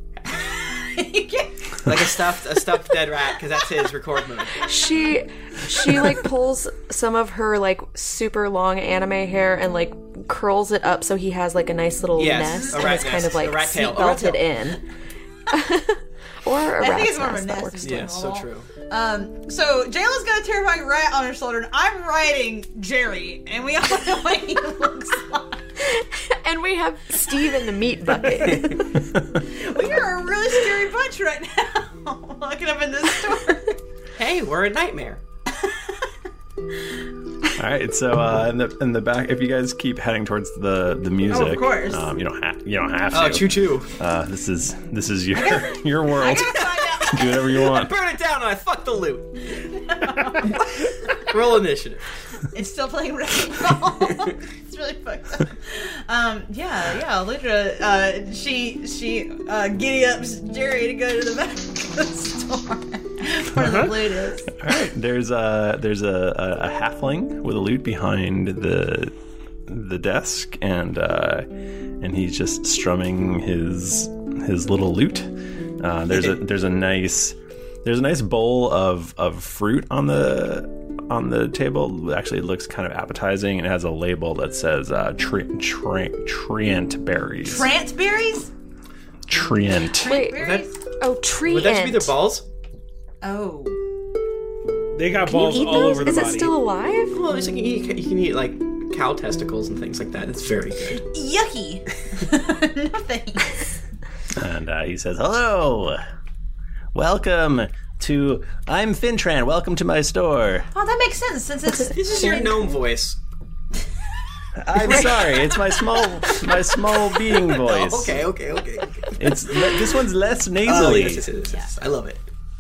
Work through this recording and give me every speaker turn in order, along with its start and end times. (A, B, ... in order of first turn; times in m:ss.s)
0:00.3-0:01.5 A
0:01.8-0:04.7 B
0:04.6-0:14.8 C
0:12.2-0:14.4 B
0:15.5-0:18.0 C
0:16.8-0:25.6 A
0:17.8-0:18.7 B
0:25.8-0:28.9 C
0:29.5-0:33.8 A
0:34.2-0:35.2 B
0:37.6-0:47.9 D
0:41.3-0:42.1 A
0:43.1-0:43.9 B
0:45.4-0:47.5 A
0:46.2-0:49.6 B
0:49.6-0:50.7 A
0:50.6-0:52.1 B
0:52.5-1:04.5 A
1:03.6-1:03.9 E
1:04.6-1:09.1 D
1:09.7-1:11.5 D
1:12.0-1:27.7 D
1:16.1-1:16.4 B
1:27.4-1:28.5 A
1:29.3-1:30.1 D
1:30.0-1:30.7 A
1:30.0-1:30.5 C
1:30.4-1:30.7 B
1:31.0-1:32.1 C
1:31.4-1:32.4 B
1:33.2-1:33.8 A
1:35.0-1:36.5 E
1:35.2-1:37.2 C
1:37.1-1:41.0 B
1:41.0-1:43.6 A
1:44.4-1:46.0 D
1:46.9-1:50.7 D
1:50.7-1:52.6 A
1:51.8-1:53.2 B
1:54.6-1:58.3 D
1:54.8-1:55.2 B
1:57.5-1:59.2 B
1:59.2-2:01.3 D
2:00.6-2:02.2 B
2:01.4-2:01.7 A